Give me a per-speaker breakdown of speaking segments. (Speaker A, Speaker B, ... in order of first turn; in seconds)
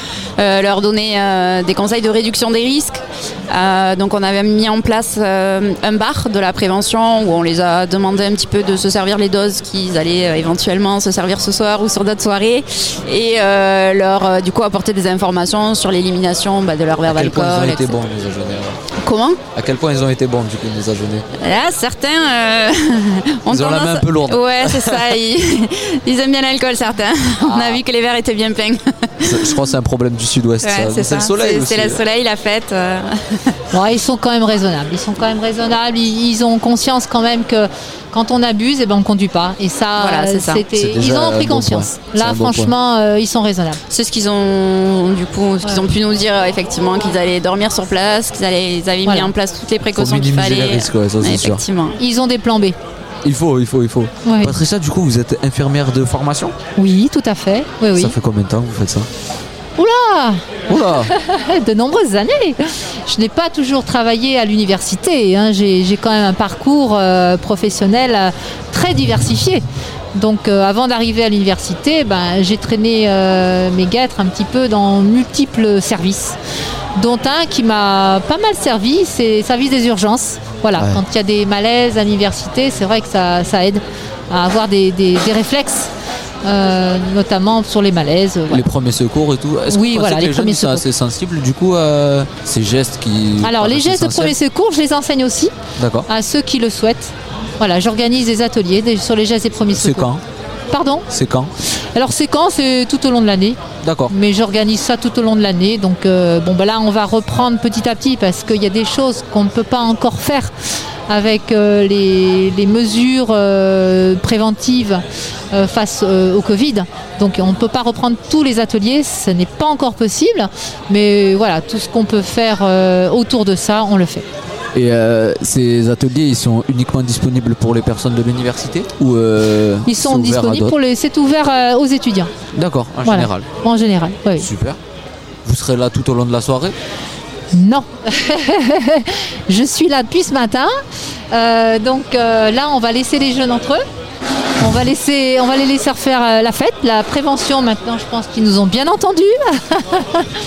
Speaker A: 0.4-18.0, 19.0-19.4, 21.4-29.5, 30.6-33.4, 40.0-40.6, 43.9-52.0
Speaker B: 17.0-18.8, 19.5-21.2, 23.5-25.1, 27.4-27.8, 29.2-32.0, 40.7-42.7, 49.9-51.6, 53.2-56.5, 57.9-59.1, 60.7-61.1, 80.8-81.0, 88.5-94.3, 95.8-96.1, 99.7-100.2, 101.1-101.5, 103.8-104.1, 124.7-130.8, 132.5-133.5, 134.4-134.8, 135.4-136.8
Speaker C: 33.7-43.8, 49.0-49.3, 52.0-52.8, 54.2-54.5, 56.8-58.1, 59.8-76.4, 77.0-85.9, 86.4-88.7, 89.7-90.8, 93.4-95.5, 96.1-100.1, 100.7-101.1, 101.9-103.6, 104.1-110.5, 111.1-124.2, 129.8-132.3, 133.0-134.5, 137.5-140.8, 141.3-143.8, 144.6-150.3